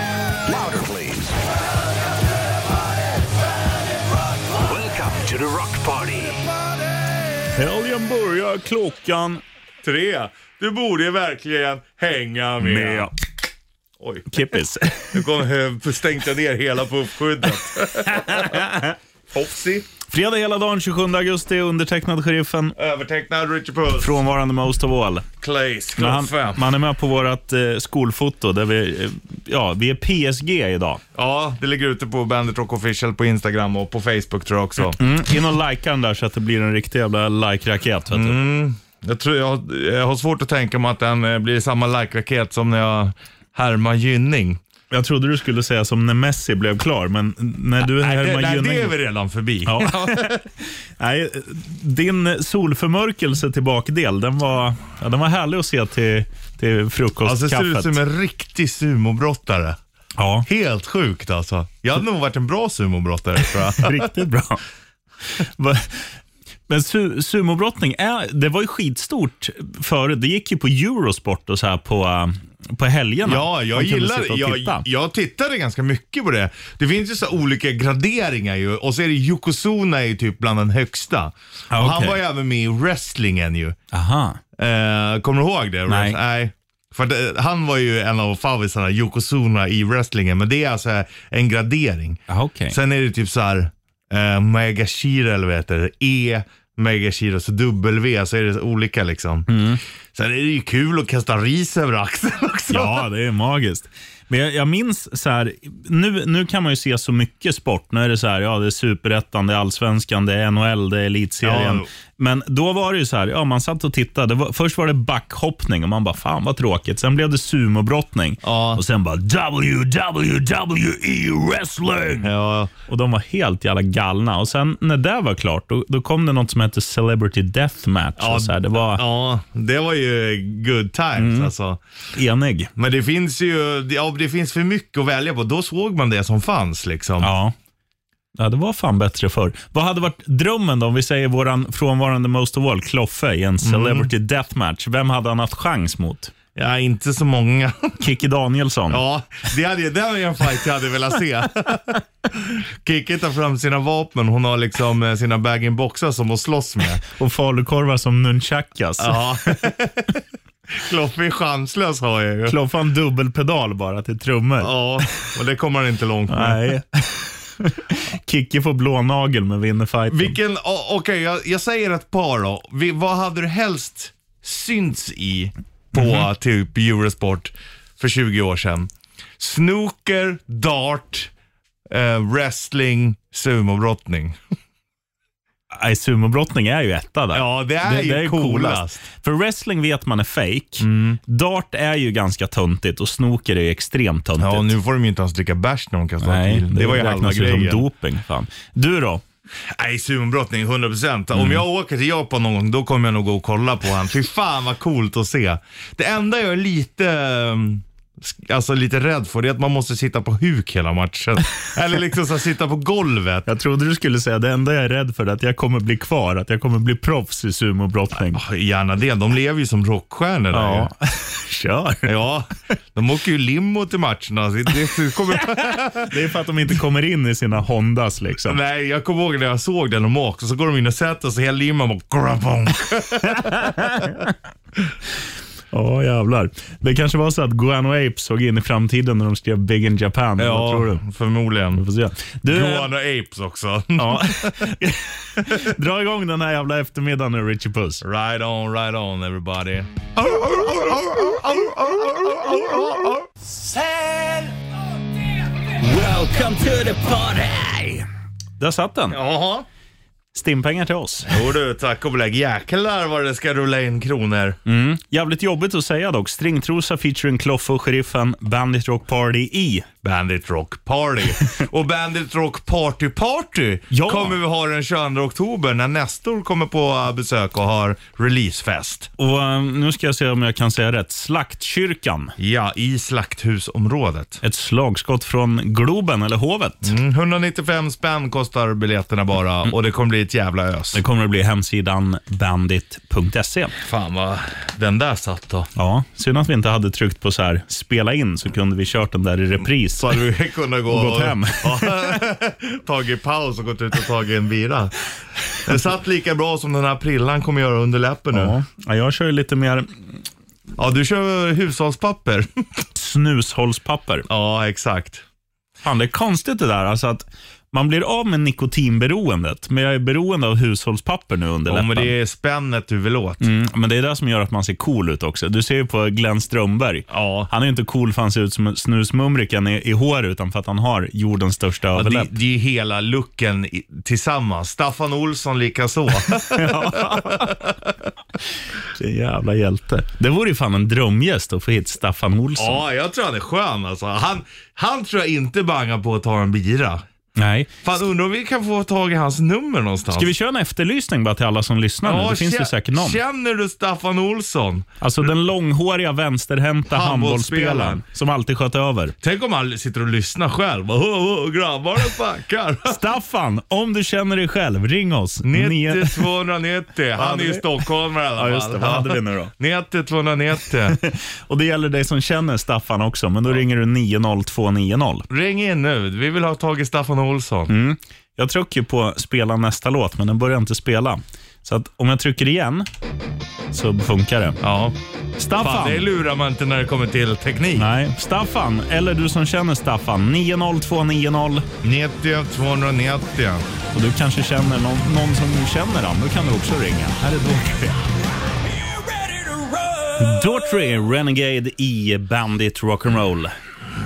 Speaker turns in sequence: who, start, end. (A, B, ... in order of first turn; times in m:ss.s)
0:00.5-0:01.3 A
0:04.6-0:06.5 A
0:07.5-0:09.4 B
0:09.8-0:13.1 C
0:12.6-0:13.1 B
0:14.0-0:14.3 C
0:14.3-0:15.2 B
0:15.1-0:18.7 C
0:18.1-0:19.0 B
0:19.3-0:19.9 C
0:20.1-0:22.8 B
0:22.8-0:24.2 C
0:24.0-0:25.3 B
0:25.4-0:26.6 C
0:26.0-0:31.0 B
0:31.2-0:35.0 C
0:34.9-0:38.4 B
0:38.1-0:44.6 C
0:44.9-0:49.0 B
0:47.8-0:50.4 C
0:49.6-0:50.4 B
0:51.0-0:58.0 B
0:57.2-0:59.8 C
1:00.2-1:00.5 B
1:00.4-1:04.1 C
1:03.8-1:04.6 B
1:05.3-1:06.1 B
1:06.7-1:14.8 B
1:13.2-1:23.8 C
1:21.7-1:22.2 B
1:23.9-1:24.4 B
1:24.6-1:39.5 C
1:25.9-1:26.2 B
1:32.3-1:32.8 B
1:39.5-1:39.8 B
1:40.1-1:43.1 C
1:42.7-2:02.3 B
1:51.4-1:51.9 C
1:58.4-1:58.8 C
2:02.2-2:02.7 C
2:02.9-2:09.0 B
2:08.2-2:11.8 C
2:11.2-2:11.5 B
2:12.1-2:12.7 B
2:12.8-2:17.3 C
2:17.2-2:17.5 B
2:18.4-2:26.3 B
2:23.6-2:24.1 C
2:26.5-2:27.9 C
2:28.0-2:29.0 B
2:28.9-2:37.0 C
2:37.1-2:39.6 B
2:39.0-2:42.6 C
2:42.5-2:45.3 B
2:44.6-2:46.8 C
2:46.3-2:50.4 B
2:50.1-3:01.3 C
2:55.9-2:56.2 B
3:01.9-3:04.4 C
3:05.7-3:14.7 B
3:07.3-3:09.0 C
3:10.8-3:11.2 C
3:14.4-3:17.8 C
3:16.2-3:19.2 B
3:19.7-3:33.5 C
3:21.3-3:21.6 B
3:33.4-3:38.4 B
3:38.3-3:40.9 C
3:40.5-3:42.1 B
3:42.0-3:46.1 C
3:45.4-3:48.6 B
3:48.4-3:53.9 C
3:53.2-3:54.3 B
3:55.7-4:01.0 B
4:00.4-4:01.8 C
4:01.8-4:02.9 B
4:02.5-4:04.7 C
4:04.0-4:08.0 B
4:08.0-4:13.2 C
4:15.8-4:18.1 B
4:18.6-4:19.2 B
4:19.1-4:19.7 C
4:20.3-4:21.3 B
4:21.3-4:24.6 C
4:24.7-4:29.9 B
4:30.0-4:39.1 C
4:33.9-4:34.4 B
4:39.2-4:42.4 B
4:42.4-4:44.4 C
4:44.4-4:46.9 B
4:46.8-4:51.0 C
4:50.9-4:53.7 B
4:53.8-4:55.7 C
4:55.8-5:00.1 B
4:59.8-5:05.0 C
5:00.9-5:02.2 B
5:05.6-5:08.6 C
5:08.3-5:09.9 B
5:10.8-5:12.5 C
5:13.0-5:14.2 B
5:14.3-5:15.2 C
5:15.8-5:22.1 B
5:21.7-5:23.4 C
5:23.4-5:32.3 B
5:27.1-5:27.5 C
5:32.0-5:37.9 C
5:36.5-5:37.6 B
5:38.9-5:42.8 B
5:42.6-5:47.0 C
5:47.4-5:47.7 B
5:47.8-5:50.3 C
5:50.1-5:53.2 B
5:52.0-5:54.9 C
5:55.0-5:59.2 B
5:56.9-5:58.0 C
5:59.2-6:03.0 C
6:02.9-6:06.3 B
6:05.4-6:11.0 C
6:07.2-6:07.8 B
6:08.4-6:09.5 B
6:11.0-6:15.3 B
6:15.3-6:17.7 C
6:17.7-6:22.9 B
6:23.7-6:24.6 B
6:24.6-6:25.0 C
6:25.4-6:26.1 B
6:25.6-6:27.9 C
6:27.8-6:31.7 B
6:31.8-6:33.6 C
6:33.9-6:38.0 B
6:40.2-6:43.5 B